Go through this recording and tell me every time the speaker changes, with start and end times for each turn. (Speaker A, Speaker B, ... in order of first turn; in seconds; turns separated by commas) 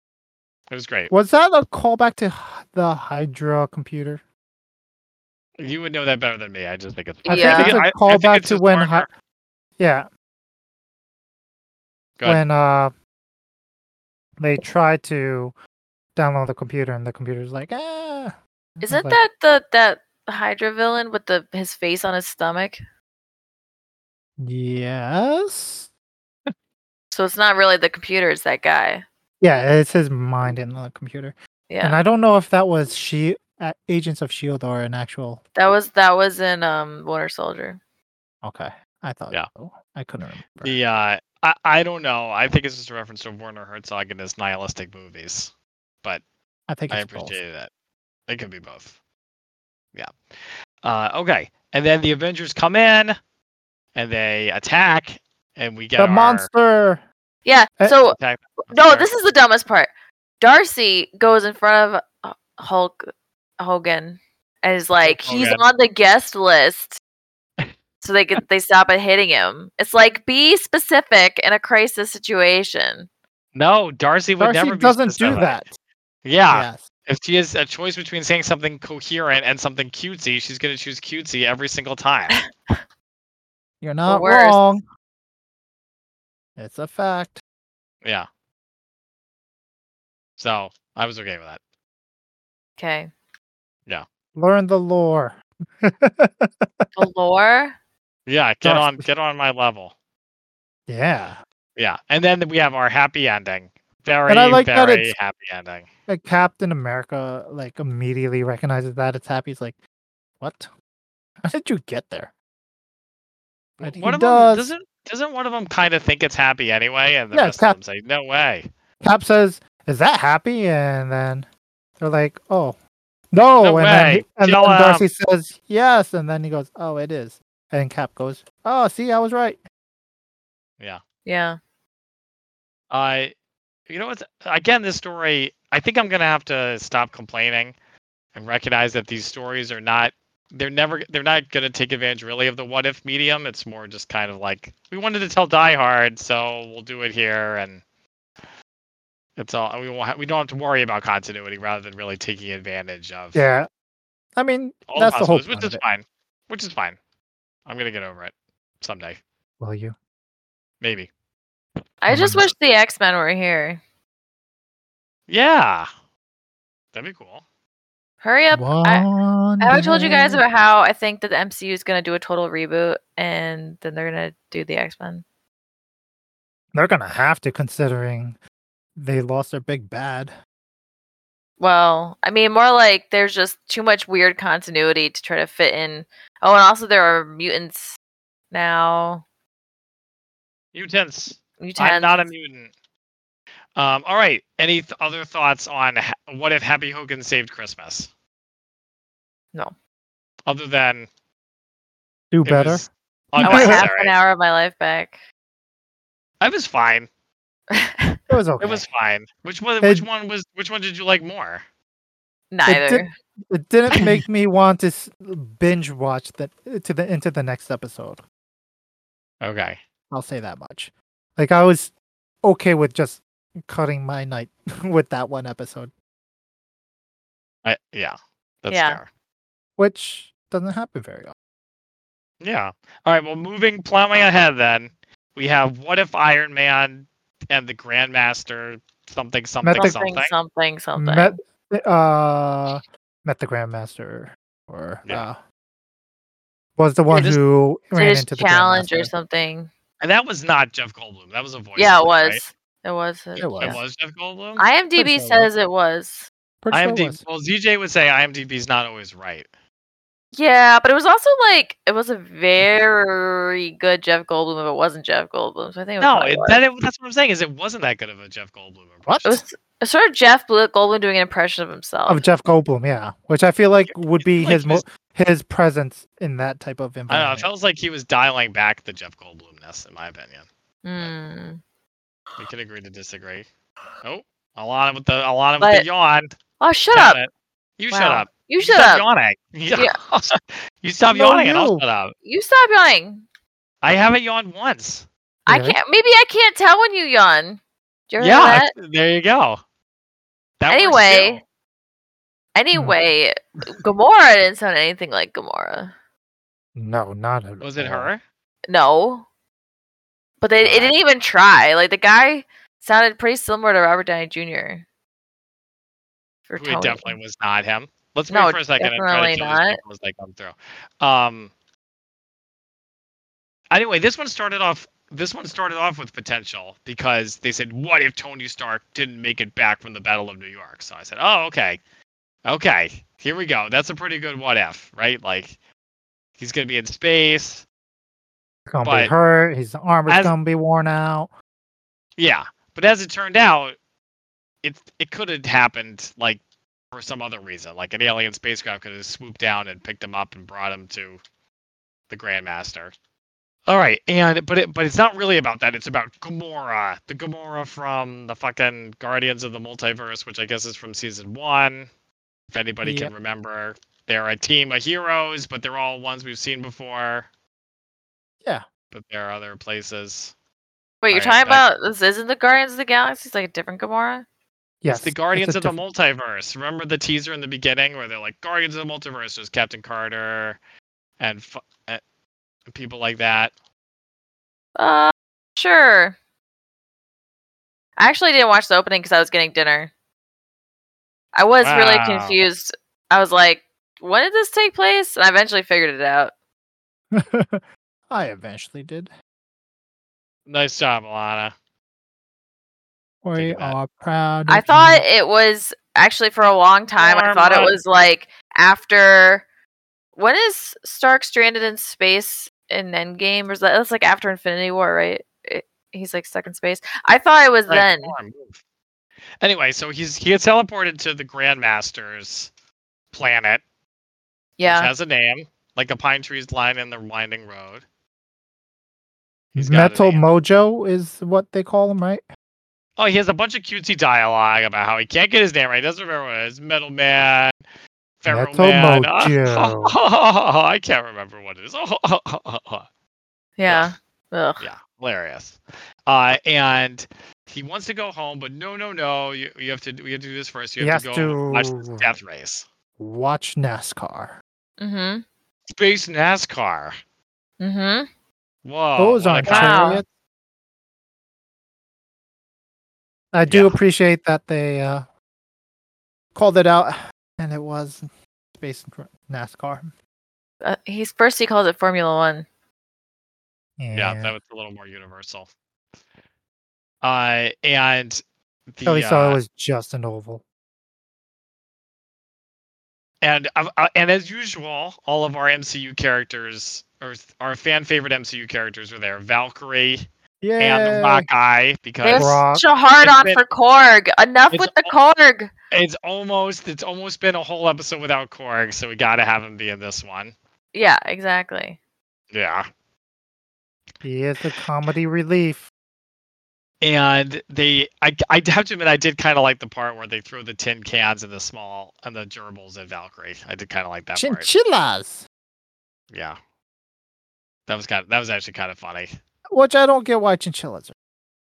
Speaker A: 0.7-1.1, Speaker B: 1.1-4.2, Speaker A: 5.6-9.1, Speaker C: 7.3-7.8, Speaker B: 7.3-9.1, Speaker B: 9.8-10.1, Speaker B: 12.2-12.9, Speaker B: 14.4-15.6, Speaker B: 16.2-19.2, Speaker C: 18.9-22.8, Speaker B: 24.4-25.9, Speaker C: 27.1-29.0, Speaker B: 29.4-35.4, Speaker C: 31.7-32.0, Speaker C: 35.6-37.8, Speaker B: 38.4-40.8, Speaker A: 40.6-45.5, Speaker B: 46.7-47.4, Speaker A: 46.9-47.7, Speaker A: 48.3-48.9, Speaker A: 50.8-53.2, Speaker A: 54.0-56.5, Speaker B: 56.0-57.0, Speaker C: 57.5-58.2, Speaker A: 58.1-59.1, Speaker C: 58.7-59.9, Speaker C: 60.4-63.0, Speaker C: 63.6-67.0, Speaker A: 65.0-65.6, Speaker C: 68.0-73.1, Speaker A: 73.5-75.6, Speaker B: 74.4-75.7, Speaker A: 76.2-82.4, Speaker B: 76.5-76.9, Speaker B: 83.8-84.8, Speaker C: 84.0-84.6, Speaker B: 86.6-87.4, Speaker A: 90.4-91.6, Speaker C: 92.8-93.1, Speaker B: 94.3-96.9, Speaker C: 97.0-97.8, Speaker A: 98.3-99.9, Speaker B: 98.6-99.0, Speaker B: 100.9-101.4, Speaker A: 101.8-105.9, Speaker B: 104.3-105.1, Speaker B: 106.1-109.8, Speaker B: 110.4-110.7, Speaker B: 111.4-112.3, Speaker A: 113.8-118.7, Speaker B: 113.8-114.7, Speaker B: 117.3-117.8, Speaker B: 119.0-121.5, Speaker B: 122.0-122.8, Speaker B: 123.3-129.6, Speaker A: 123.6-125.1, Speaker C: 131.3-131.6, Speaker A: 132.9-133.3, Speaker A: 133.9-137.7, Speaker A: 138.3-147.8, Speaker A: 149.4-153.4, Speaker B: 153.3-153.7, Speaker B: 154.4-155.8, Speaker A: 154.9-157.0, Speaker A: 157.7-159.2, Speaker B: 159.6-159.9, Speaker A: 160.8-161.1, Speaker C: 162.0-163.8, Speaker B: 162.1-162.4, Speaker A: 165.3-165.9, Speaker A: 166.9-167.4, Speaker C: 168.2-169.1, Speaker B: 168.5-170.4, Speaker C: 169.6-175.2, Speaker B: 176.7-178.4, Speaker B: 179.0-180.3, Speaker C: 181.6-188.0, Speaker C: 188.5-189.2, Speaker A: 190.7-192.7, Speaker C: 191.6-192.2, Speaker A: 193.8-198.1, Speaker A: 200.5-201.1, Speaker B: 202.3-202.9, Speaker A: 202.4-204.1, Speaker B: 203.4-203.8, Speaker C: 203.4-205.2, Speaker A: 206.4-207.1, Speaker C: 207.7-208.2, Speaker B: 208.3-208.8, Speaker A: 208.6-211.6, Speaker C: 212.5-213.1, Speaker B: 212.7-218.2, Speaker C: 213.9-214.2, Speaker A: 219.4-219.8, Speaker B: 220.1-221.9, Speaker B: 222.4-225.9, Speaker A: 227.7-229.1, Speaker C: 228.7-229.0, Speaker B: 229.8-231.3, Speaker A: 232.4-240.3, Speaker B: 239.6-240.0, Speaker C: 239.8-241.4, Speaker B: 241.0-245.4, Speaker B: 246.8-249.1, Speaker A: 247.1-247.4, Speaker C: 247.9-249.7, Speaker A: 250.0-252.4, Speaker C: 251.8-253.8, Speaker B: 253.4-253.8, Speaker A: 253.6-254.7, Speaker C: 254.6-256.3, Speaker B: 255.0-255.5, Speaker B: 256.6-257.2, Speaker A: 256.7-259.5, Speaker C: 260.3-266.6, Speaker A: 266.0-269.3, Speaker B: 269.1-269.4, Speaker C: 269.2-272.2, Speaker B: 272.1-277.5, Speaker A: 273.9-274.8, Speaker A: 277.1-280.4, Speaker C: 280.8-281.6, Speaker A: 282.4-283.5, Speaker A: 284.0-286.3, Speaker C: 285.6-285.9, Speaker C: 286.6-287.2, Speaker A: 286.9-292.1, Speaker C: 287.9-289.1, Speaker B: 291.1-291.8, Speaker C: 292.2-293.2, Speaker A: 293.8-295.1, Speaker B: 295.5-295.8, Speaker C: 295.5-298.7, Speaker A: 298.2-299.6, Speaker A: 300.6-301.4, Speaker C: 300.7-301.4, Speaker C: 302.6-305.9, Speaker B: 306.8-308.1, Speaker A: 307.6-308.2, Speaker C: 308.7-309.2, Speaker C: 310.4-314.8, Speaker A: 310.6-311.0, Speaker C: 316.5-317.1, Speaker A: 316.6-321.5, Speaker C: 318.3-319.8, Speaker A: 323.7-331.8, Speaker A: 332.5-335.6, Speaker A: 336.4-337.6, Speaker B: 338.7-341.3, Speaker A: 338.8-339.1, Speaker A: 340.1-340.3, Speaker A: 342.2-343.8, Speaker A: 344.6-346.4, Speaker A: 346.9-351.2, Speaker A: 352.1-352.9, Speaker A: 353.7-361.9, Speaker A: 362.5-367.3, Speaker B: 362.8-363.1, Speaker A: 368.9-370.3, Speaker C: 371.0-374.2, Speaker A: 371.1-371.7, Speaker B: 374.8-375.8, Speaker A: 374.9-380.6, Speaker A: 381.2-382.0, Speaker A: 382.7-383.5, Speaker C: 384.8-386.2, Speaker C: 388.0-389.9, Speaker C: 391.3-396.3, Speaker A: 391.6-392.4, Speaker B: 397.1-399.1, Speaker A: 400.5-401.5, Speaker B: 403.2-405.0, Speaker A: 403.4-403.8, Speaker C: 404.5-409.4, Speaker A: 407.0-407.8, Speaker C: 410.2-418.1, Speaker A: 417.7-418.6, Speaker A: 419.4-422.5, Speaker A: 423.1-423.6, Speaker C: 424.6-424.9, Speaker A: 424.6-427.8, Speaker A: 429.6-430.2, Speaker B: 429.6-432.2, Speaker A: 433.0-437.6, Speaker A: 438.2-442.9, Speaker B: 438.3-439.9, Speaker C: 443.6-444.6, Speaker A: 443.7-443.9, Speaker A: 444.6-452.6, Speaker B: 450.8-452.1, Speaker B: 453.0-454.4, Speaker C: 454.8-455.2, Speaker A: 455.7-456.9, Speaker C: 457.6-458.1, Speaker A: 458.6-460.0, Speaker B: 459.0-460.1, Speaker C: 459.4-460.0, Speaker B: 463.3-465.1, Speaker A: 463.5-463.8, Speaker B: 466.4-469.9, Speaker C: 470.6-472.5, Speaker B: 473.8-474.3, Speaker A: 473.9-475.5, Speaker A: 477.0-478.2, Speaker A: 478.7-479.4, Speaker B: 478.9-480.4, Speaker A: 483.2-490.1, Speaker B: 490.4-491.3, Speaker A: 490.6-492.4, Speaker C: 492.0-495.5, Speaker B: 492.1-492.6, Speaker A: 493.0-493.4, Speaker A: 494.5-494.9, Speaker A: 495.7-500.3, Speaker C: 500.7-501.8, Speaker A: 502.3-502.7, Speaker B: 504.0-505.7, Speaker A: 506.8-514.5, Speaker B: 514.2-515.3, Speaker A: 516.1-516.4, Speaker A: 517.7-519.1, Speaker B: 519.5-520.9